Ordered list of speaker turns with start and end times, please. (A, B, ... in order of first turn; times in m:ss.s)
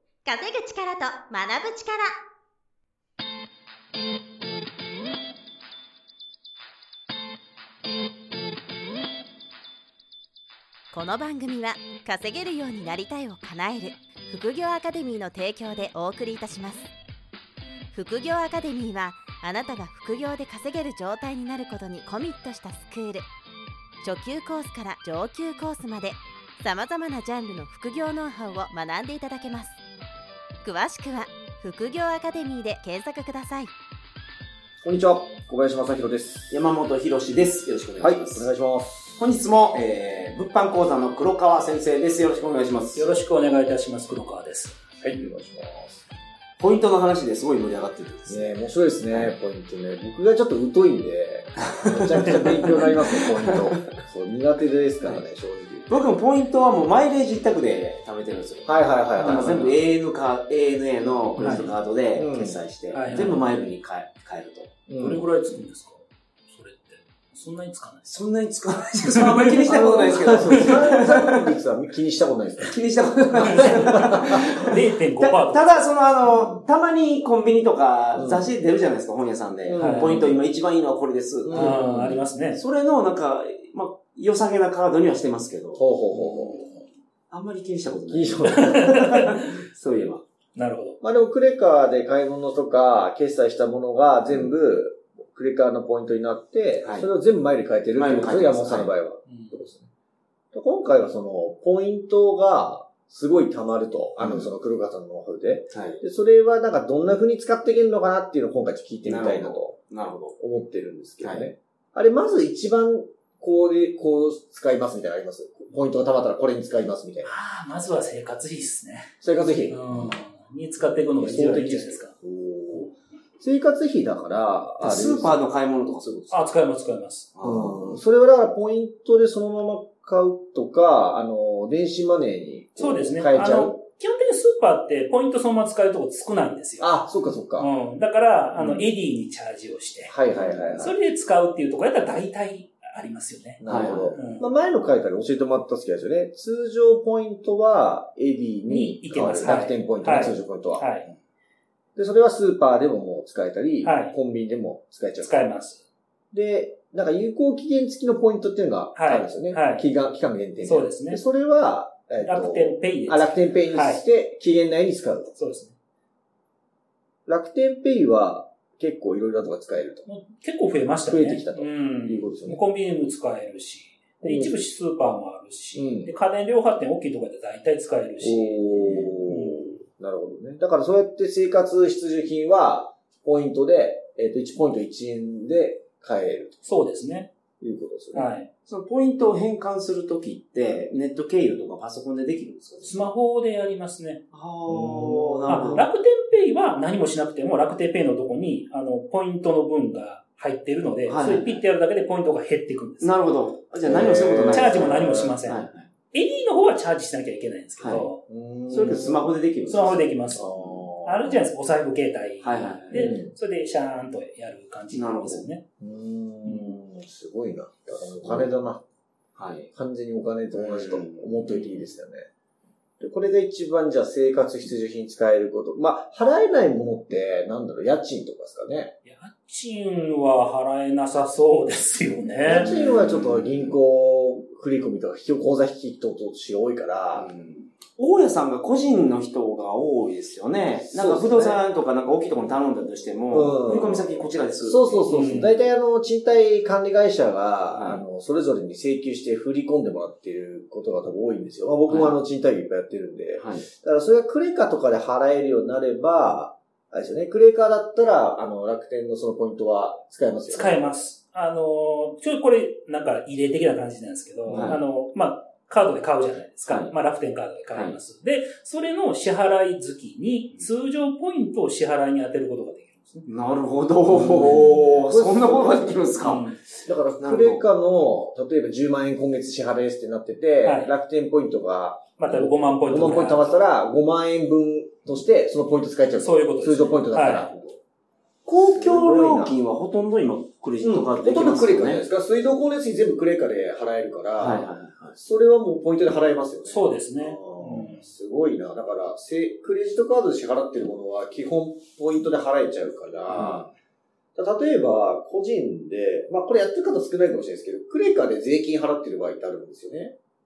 0:00.2-0:02.2 A
0:10.9-0:16.9 A
0:17.9-0:23.3 A
0:24.0-0:29.8 A
0:30.6-0:33.7 A
0:34.8-0:36.6 B
0:36.5-0:38.5 C
0:38.0-0:39.2 B
0:39.2-0:43.1 C
0:42.9-0:44.8 D
0:45.0-0:46.1 B
0:46.6-0:49.3 C
0:48.2-0:56.1 B
0:51.9-0:53.7 C
0:55.9-1:04.7 C
0:58.6-0:59.8 B
0:59.2-0:59.5 D
1:01.4-1:01.8 D
1:02.1-1:02.6 B
1:02.9-1:03.4 D
1:04.9-1:05.2 B
1:05.0-1:08.2 D
1:08.0-1:11.3 C
1:09.0-1:09.8 D
1:09.7-1:12.8 B
1:10.5-1:10.8 D
1:12.6-1:25.8 C
1:13.3-1:14.4 B
1:13.3-1:15.8 D
1:16.2-1:16.6 B
1:18.1-1:18.5 B
1:19.6-1:20.4 B
1:19.8-1:20.3 D
1:21.4-1:22.2 B
1:21.5-1:22.6 D
1:25.8-1:26.6 B
1:26.3-1:26.8 D
1:27.3-1:30.2 C
1:28.1-1:29.0 B
1:28.4-1:29.5 D
1:30.6-1:31.0 D
1:31.0-1:39.9 B
1:36.8-1:37.1 C
1:37.9-1:38.9 C
1:39.3-1:39.6 D
1:40.5-1:49.8 B
1:44.2-1:44.5 C
1:45.7-1:46.0 C
1:49.0-1:50.4 C
1:50.4-1:57.3 B
1:51.2-1:51.5 C
1:57.2-1:59.1 D
1:59.2-2:00.2 B
1:59.7-2:02.1 D
2:01.1-2:05.4 B
2:04.8-2:06.2 C
2:06.0-2:06.3 B
2:06.3-2:07.3 D
2:07.3-2:08.0 C
2:07.4-2:13.8 B
2:12.8-2:17.0 D
2:16.8-2:17.7 B
2:17.6-2:20.1 D
2:18.6-2:18.9 B
2:20.0-2:20.9 B
2:20.3-2:20.9 C
2:20.8-2:23.6 D
2:23.6-2:30.9 B
2:23.7-2:24.2 C
2:24.1-2:24.5 D
2:28.7-2:31.1 D
2:32.0-2:35.5 B
2:33.8-2:34.2 D
2:35.2-2:35.8 D
2:36.3-2:45.3 B
2:38.9-2:39.9 D
2:40.6-2:41.2 D
2:42.2-2:44.0 D
2:45.3-2:45.8 D
2:47.2-2:50.0 B
2:50.0-2:59.8 D
2:51.0-2:52.6 B
2:54.2-2:54.6 B
2:55.7-2:56.1 B
2:58.2-3:06.7 B
3:06.6-3:07.3 D
3:07.6-3:08.3 B
3:08.1-3:08.5 D
3:08.7-3:13.1 C
3:12.8-3:14.2 D
3:14.3-3:15.9 C
3:14.7-3:15.9 B
3:15.5-3:23.2 D
3:21.0-3:21.6 C
3:23.0-3:25.9 C
3:23.8-3:25.4 B
3:24.5-3:28.2 D
3:27.8-3:28.1 C
3:28.3-3:29.3 B
3:28.7-3:30.9 C
3:29.6-3:30.4 D
3:30.3-3:31.5 B
3:31.0-3:35.6 D
3:32.4-3:33.2 C
3:32.9-3:33.3 B
3:34.9-3:35.5 C
3:35.8-3:38.8 B
3:36.4-3:36.8 D
3:39.4-3:39.7 C
3:39.7-3:42.3 B
3:40.5-3:41.9 C
3:43.0-3:48.9 B
3:49.0-3:52.7 D
3:52.4-3:57.3 B
3:52.5-3:53.8 C
3:57.1-4:05.1 C
4:00.8-4:01.6 B
4:03.3-4:20.9 B
4:05.1-4:05.6 D
4:07.7-4:08.0 C
4:11.9-4:12.2 C
4:13.4-4:13.6 C
4:20.5-4:33.3 D
4:24.4-4:24.8 B
4:24.5-4:24.8 C
4:26.7-4:26.9 C
4:27.7-4:28.0 C
4:33.2-4:36.6 C
4:34.1-4:36.1 B
4:34.3-4:34.8 D
4:36.2-4:36.6 D
4:36.8-4:47.8 B
4:37.2-4:37.7 C
4:40.6-4:40.9 D
4:42.2-4:43.6 D
4:46.2-4:47.5 D
4:48.4-4:52.1 C
4:48.5-4:49.6 B
4:50.8-5:03.7 B
4:54.4-4:55.2 C
4:56.6-4:58.1 D
5:03.3-5:03.7 C
5:04.4-5:10.1 B